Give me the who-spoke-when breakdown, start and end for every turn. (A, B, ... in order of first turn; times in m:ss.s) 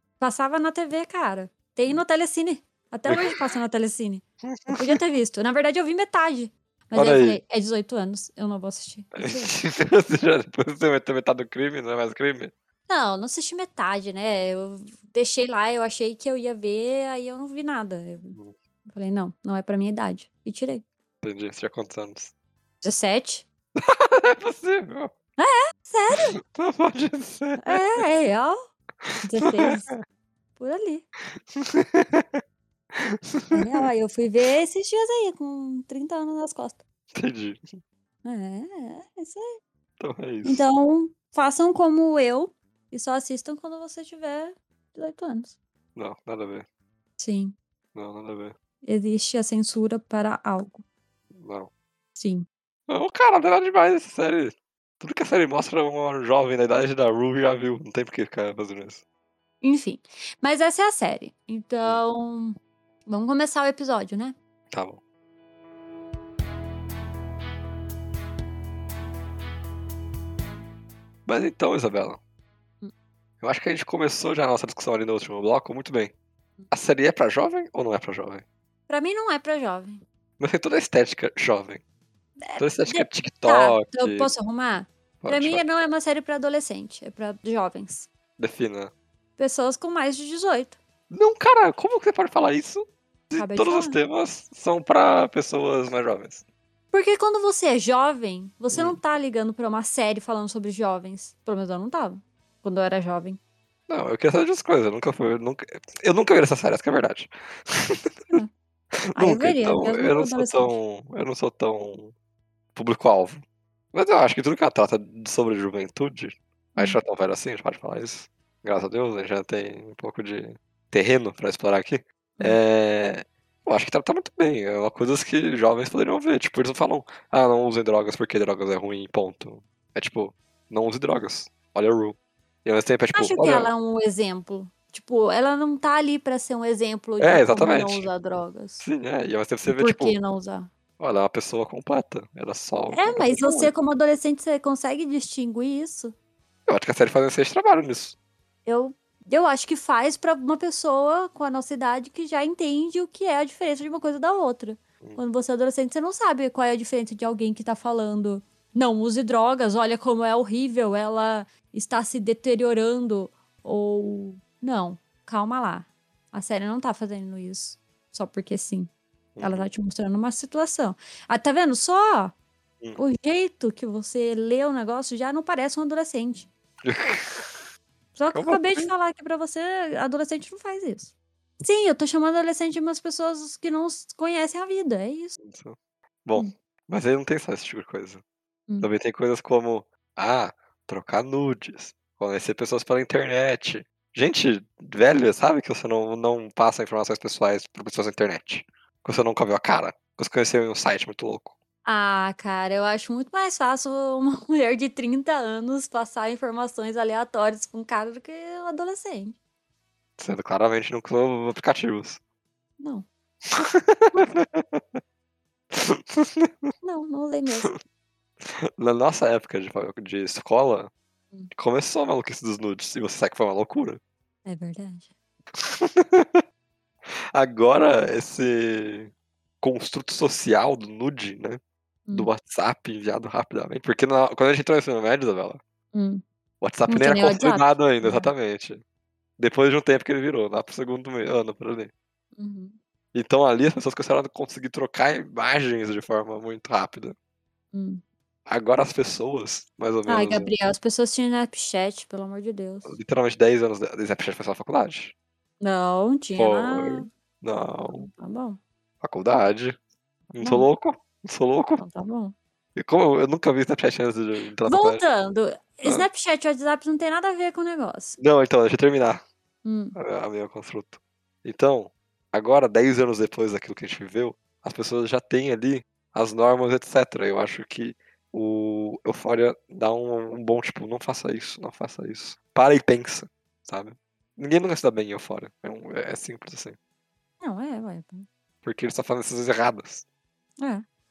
0:00.2-0:09.5 A
0:03.1-0:03.4 B
0:04.5-0:05.0 B
0:07.0-0:07.4 B
0:09.1-0:12.5 B
0:12.9-0:20.8 A
0:21.2-0:22.3 B
0:22.8-0:23.4 A
0:23.8-0:25.1 B
0:25.4-0:26.4 A
0:26.1-0:28.0 B
0:27.6-0:28.6 A
0:29.1-0:30.0 B
0:29.2-0:29.9 A
0:30.6-0:31.1 A
0:31.5-0:32.4 B
0:32.9-0:33.9 B
0:33.5-0:36.8 A
0:37.1-0:37.7 B
0:38.2-0:39.5 A
0:40.0-0:40.7 B
0:40.4-0:45.6 A
0:46.0-0:46.7 B
0:47.2-0:47.6 A
0:48.0-0:48.6 B
0:48.8-0:50.8 A
0:51.3-0:51.7 B
0:52.2-0:52.5 A
0:52.9-0:59.0 B
0:59.6-1:04.4 A
1:04.7-1:05.0 B
1:11.3-1:12.2 B
1:13.4-1:16.1 B
1:16.7-1:18.4 B
1:18.9-1:20.0 A
1:20.4-1:21.8 B
1:22.4-1:28.1 A
1:22.6-1:24.3 B
1:25.2-1:25.6 B
1:28.4-1:28.9 B
1:29.4-1:30.8 A
1:31.1-1:36.4 B
1:33.3-1:34.0 A
1:36.9-1:43.4 A
1:38.7-1:39.0 B
1:43.9-1:48.4 B
1:49.1-1:52.1 B
1:49.2-1:50.8 A
1:52.8-1:53.4 B
1:53.9-2:13.7 B
2:13.1-2:18.9 A
2:17.2-2:18.1 B
2:18.8-2:20.2 B
2:19.6-2:20.7 A
2:21.0-2:23.7 B
2:22.9-2:26.1 A
2:26.7-2:28.2 B
2:28.7-2:52.3 A
2:49.4-2:49.7 B
2:53.0-2:56.5 A
2:56.8-2:57.7 B
2:58.2-3:05.4 A
2:58.3-2:58.9 B
3:05.4-3:08.2 B
3:08.8-3:21.6 B
3:21.8-3:29.4 A
3:30.2-3:32.2 B
3:32.8-3:33.1 A
3:33.4-3:35.0 B
3:33.6-3:34.4 A
3:35.7-3:36.7 B
3:36.8-3:37.8 A
3:38.4-3:40.9 B
3:41.5-3:44.0 B
3:44.5-3:45.1 A
3:45.6-3:46.4 B
3:47.1-3:51.6 B
3:52.1-3:55.6 B
3:55.9-3:56.2 A
3:56.6-3:58.8 B
3:56.9-3:58.3 A
3:59.4-4:01.9 B
4:02.4-4:02.8 A
4:03.1-4:07.2 B
4:07.7-4:08.0 A
4:08.5-4:10.5 B
4:10.1-4:13.0 A
4:12.9-4:15.1 B
4:15.6-4:17.1 A
4:16.4-4:18.1 B
4:17.8-4:18.6 A
4:19.0-4:19.8 B
4:20.3-4:21.8 B
4:20.4-4:20.7 A
4:21.8-4:22.3 A
4:22.8-4:25.0 B
4:24.7-4:28.2 A
4:28.2-4:29.2 B
4:29.6-4:30.0 A
4:30.0-4:46.8 B
4:47.4-4:48.3 A
4:48.6-4:50.0 B
4:50.6-4:50.8 A